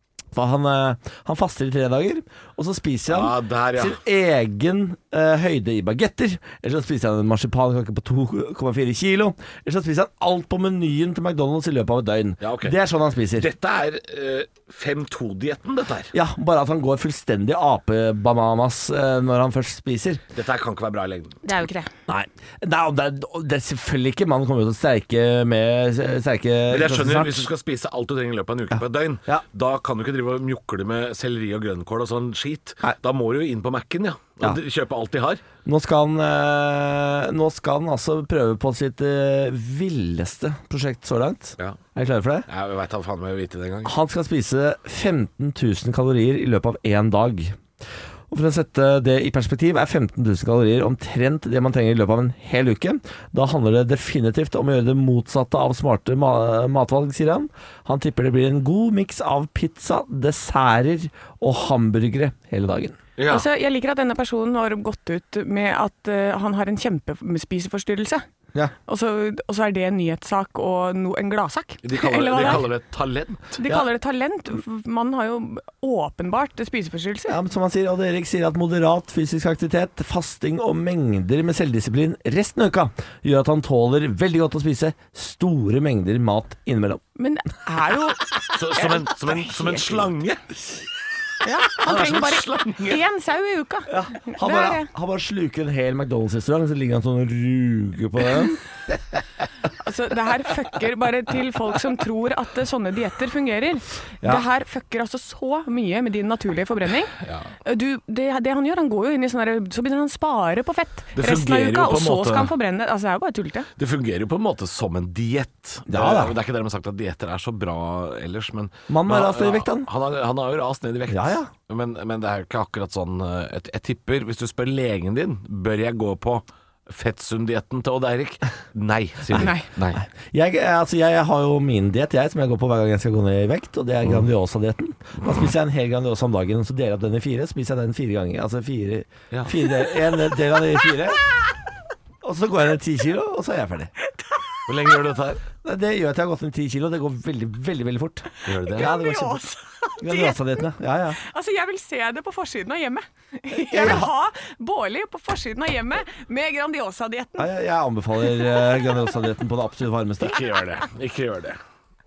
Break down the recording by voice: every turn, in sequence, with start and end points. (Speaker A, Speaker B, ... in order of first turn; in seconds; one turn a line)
Speaker A: 0.3-13.5
Speaker B: 3.1-4.0
Speaker B: 12.4-12.8
Speaker B: 13.4-16.1
Speaker A: 16.1-20.2
Speaker B: 20.4-21.4
Speaker C: 21.4-21.9
Speaker A: 22.1-27.5
Speaker B: 26.7-35.4
Speaker A: 28.8-29.4
Speaker A: 35.6-42.5
Speaker B: 42.5-44.0
Speaker A: 43.9-47.6
Speaker A: 48.3-63.0
Speaker B: 63.2-63.5
Speaker C: 63.3-68.2
Speaker C: 68.9-72.7
Speaker B: 71.8-73.5
Speaker C: 73.5-77.4
Speaker A: 77.3-87.0
Speaker C: 87.2-89.8
Speaker B: 88.5-90.6
Speaker C: 91.4-94.9
Speaker B: 91.8-93.0
Speaker A: 93.9-98.6
Speaker C: 99.8-107.1
Speaker B: 107.2-107.5
Speaker C: 107.7-113.7
Speaker B: 111.2-112.5
Speaker B: 113.8-130.0
Speaker A: 115.9-116.4
Speaker A: 118.9-119.9
Speaker A: 121.1-121.5
Speaker A: 129.3-141.2
Speaker C: 129.4-129.7
Speaker B: 139.3-139.6
Speaker A: 142.2-143.9
Speaker B: 144.7-145.4
Speaker A: 145.6-149.5
Speaker B: 148.5-148.9
Speaker C: 148.8-150.4
Speaker A: 150.0-151.2
Speaker C: 151.2-157.5
Speaker A: 153.7-154.1
Speaker A: 157.4-160.4
Speaker B: 160.2-161.6